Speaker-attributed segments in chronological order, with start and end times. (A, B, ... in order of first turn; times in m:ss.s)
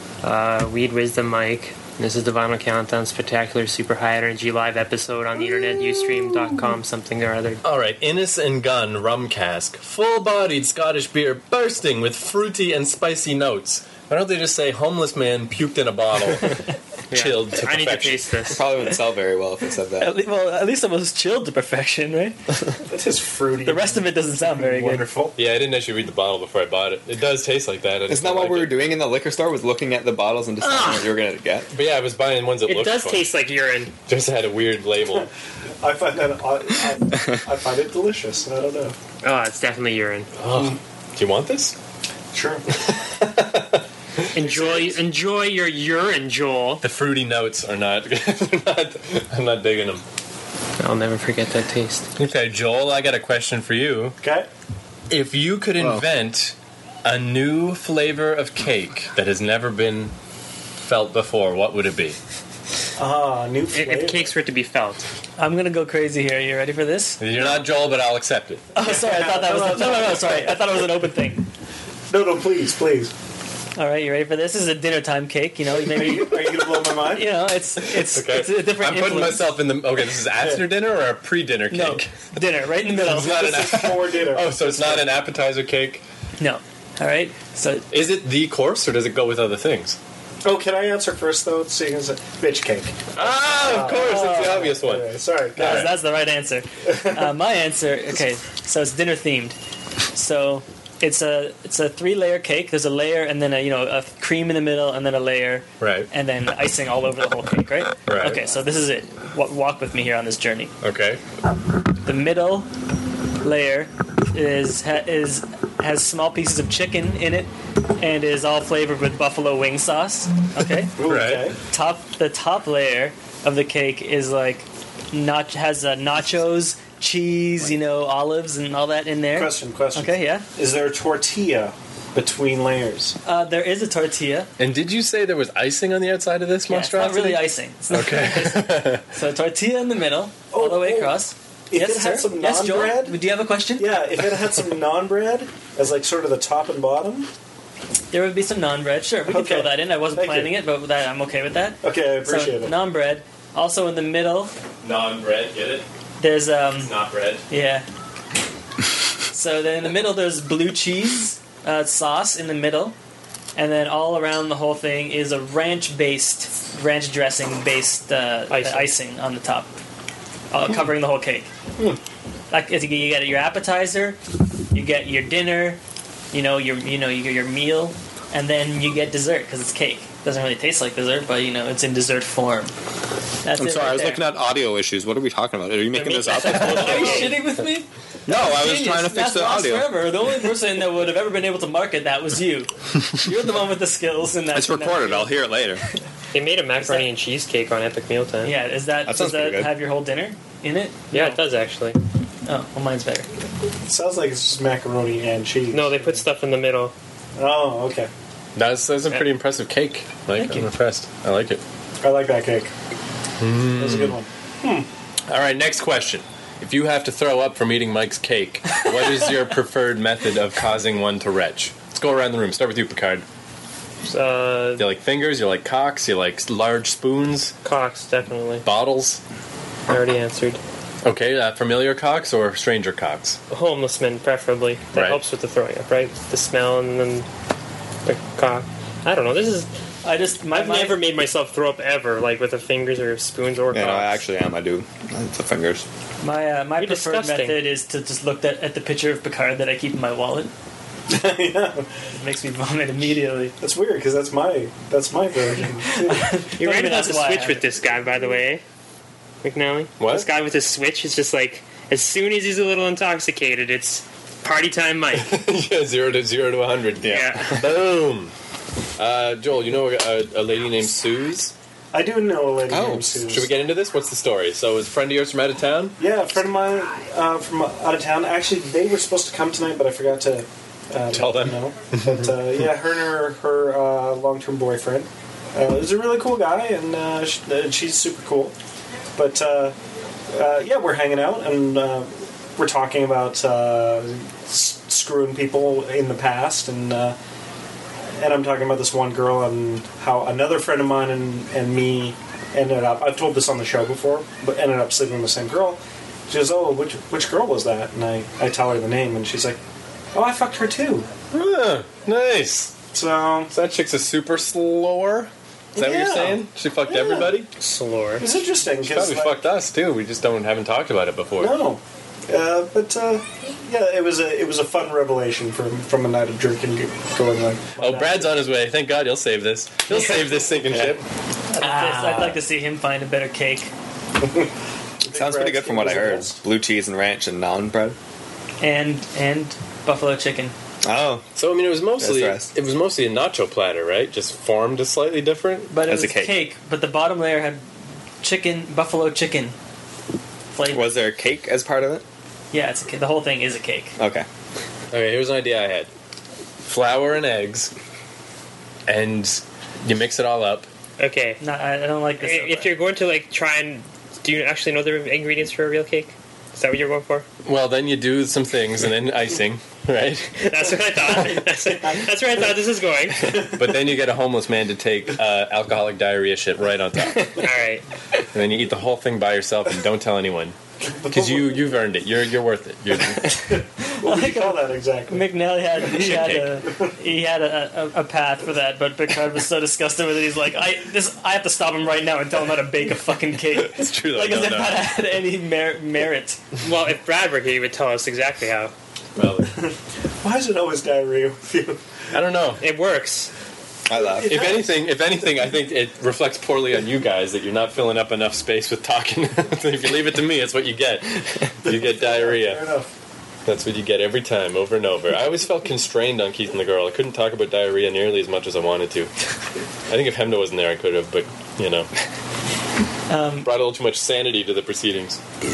0:00.2-0:07.6 A
0:07.6-0:18.3 B
0:17.1-0:18.6 A
0:18.5-0:20.2 C
0:20.0-0:22.4 D
0:22.8-0:25.4 E
0:23.6-0:25.1 D
0:25.4-0:28.8 B
0:28.1-0:31.7 C
0:30.7-0:31.0 D
0:31.7-0:33.3 B
0:32.6-0:34.0 A
0:34.1-0:35.3 B
0:35.8-0:39.0 E
0:39.2-0:40.3 A
0:40.4-0:41.8 B
0:40.5-0:40.8 E
0:42.3-0:42.6 E
0:42.9-0:44.3 B
0:44.4-0:45.0 E
0:44.4-0:46.8 A
0:46.8-0:50.0 B
0:50.8-0:52.1 A
0:52.2-0:54.2 B
0:54.2-0:54.5 E
0:55.1-1:00.1 B
0:55.8-0:56.0 C
1:00.8-1:02.2 B
1:03.0-1:04.3 E
1:03.7-1:05.0 A
1:05.4-1:07.2 D
1:07.2-1:08.6 B
1:08.7-1:11.5 D
1:08.8-1:10.7 E
1:12.1-1:13.1 E
1:13.8-1:19.5 D
1:15.8-1:17.4 E
1:18.0-1:22.1 B
1:20.3-1:20.8 E
1:21.7-1:23.4 D
1:23.0-1:26.0 B
1:23.0-1:25.1 E
1:26.4-1:27.8 D
1:27.9-1:30.0 B
1:30.4-1:35.9 E
1:33.2-1:36.0 B
1:33.9-1:34.7 D
1:35.6-1:39.6 D
1:40.1-1:50.7 D
1:45.8-1:46.1 B
1:48.1-1:48.6 B
1:50.8-1:51.2 B
1:52.0-1:52.7 D
1:53.4-2:01.0 D
2:01.0-2:01.6 E
2:01.0-2:01.5 B
2:01.7-2:10.5 D
2:09.3-2:13.2 E
2:13.3-2:14.5 D
2:14.6-2:19.0 B
2:16.7-2:23.9 D
2:20.5-2:23.2 E
2:23.8-2:27.3 E
2:28.1-2:34.5 D
2:29.3-2:30.6 E
2:31.8-2:32.8 E
2:34.8-2:35.8 B
2:36.2-2:37.0 D
2:36.8-2:37.4 B
2:37.5-2:37.9 D
2:39.3-2:43.0 D
2:43.6-2:49.7 D
2:48.5-2:48.9 A
2:50.5-2:51.5 D
2:52.5-2:54.2 D
2:54.7-2:55.8 D
2:56.3-3:02.7 D
3:03.4-3:04.2 D
3:03.6-3:07.4 C
3:05.9-3:07.4 A
3:06.5-3:15.3 D
3:08.3-3:10.2 C
3:14.5-3:15.8 C
3:16.3-3:18.5 A
3:16.8-3:17.0 D
3:18.4-3:21.4 D
3:19.0-3:19.8 C
3:21.1-3:22.0 A
3:22.5-3:23.3 D
3:23.8-3:26.2 E
3:25.7-3:26.9 A
3:27.4-3:28.1 E
3:28.6-3:31.6 B
3:30.4-3:30.7 D
3:32.0-3:32.7 E
3:33.4-3:34.2 B
3:33.7-3:34.9 E
3:35.3-3:43.2 B
3:44.1-3:44.9 A
3:44.8-3:47.5 B
3:47.6-3:48.6 A
3:48.6-3:49.2 B
3:49.9-3:50.6 A
3:51.0-3:53.4 B
3:53.5-3:57.3 A
3:54.9-3:55.2 B
3:58.1-3:59.7 A
4:00.0-4:01.0 D
4:00.5-4:04.2 A
4:03.7-4:05.9 C
4:06.2-4:10.5 D
4:06.8-4:07.6 A
4:11.1-4:11.9 E
4:12.2-4:13.5 D
4:13.6-4:16.4 E
4:15.8-4:17.6 D
4:16.6-4:18.6 A
4:19.4-4:25.3 A
4:20.0-4:20.3 B
4:25.2-4:28.3 B
4:27.0-4:27.6 C
4:27.1-4:27.5 A
4:29.0-4:31.5 B
4:31.9-4:33.6 E
4:32.7-4:33.2 C
4:33.3-4:36.0 B
4:36.0-4:48.5 E
4:41.1-4:42.3 B
4:49.2-4:49.8 E
4:50.3-4:57.2 E
4:58.2-5:09.6 E
5:10.1-5:11.1 E
5:11.3-5:12.8 B
5:12.9-5:13.5 E
5:13.5-5:17.5 B
5:15.8-5:17.4 E
5:17.6-5:18.3 A
5:18.2-5:19.5 E
5:18.8-5:21.6 B
5:21.4-5:28.5 E
5:27.8-5:31.0 B
5:31.5-5:33.7 D
5:31.7-5:32.3 A
5:34.2-5:34.5 E
5:35.0-5:36.4 E
5:35.0-5:38.0 C
5:38.6-5:40.5 D
5:40.8-5:41.3 C
5:41.4-5:45.7 B
5:42.0-5:42.5 C
5:45.7-5:47.6 D
5:45.8-5:46.5 C
5:48.2-5:49.6 D
5:50.5-5:51.0 D
5:50.7-5:52.0 C
5:52.5-5:53.9 D
5:54.0-5:54.3 C
5:54.9-5:55.9 B
5:56.7-5:57.7 B
5:58.9-6:00.7 B
6:01.0-6:01.4 A
6:01.4-6:02.7 D
6:02.2-6:07.3 A
6:07.4-6:10.5 B
6:10.5-6:13.4 A
6:11.1-6:12.5 E
6:13.2-6:13.8 E
6:13.6-6:17.4 B
6:17.4-6:17.8 A
6:18.3-6:20.6 B
6:20.9-6:21.8 E
6:21.1-6:23.3 B
6:23.1-6:26.9 E
6:23.8-6:36.4 D
6:26.1-6:26.4 B
6:33.6-6:34.9 B
6:36.6-6:38.7 A
6:39.2-6:39.5 B
6:40.2-6:41.8 E
6:42.1-6:42.6 B
6:42.6-6:43.3 A
6:43.9-6:44.6 C
6:44.2-6:52.7 B
6:51.6-6:52.9 E
6:53.5-6:59.1 B
6:59.9-7:01.9 B
7:03.1-7:03.5 D
7:03.4-7:05.2 B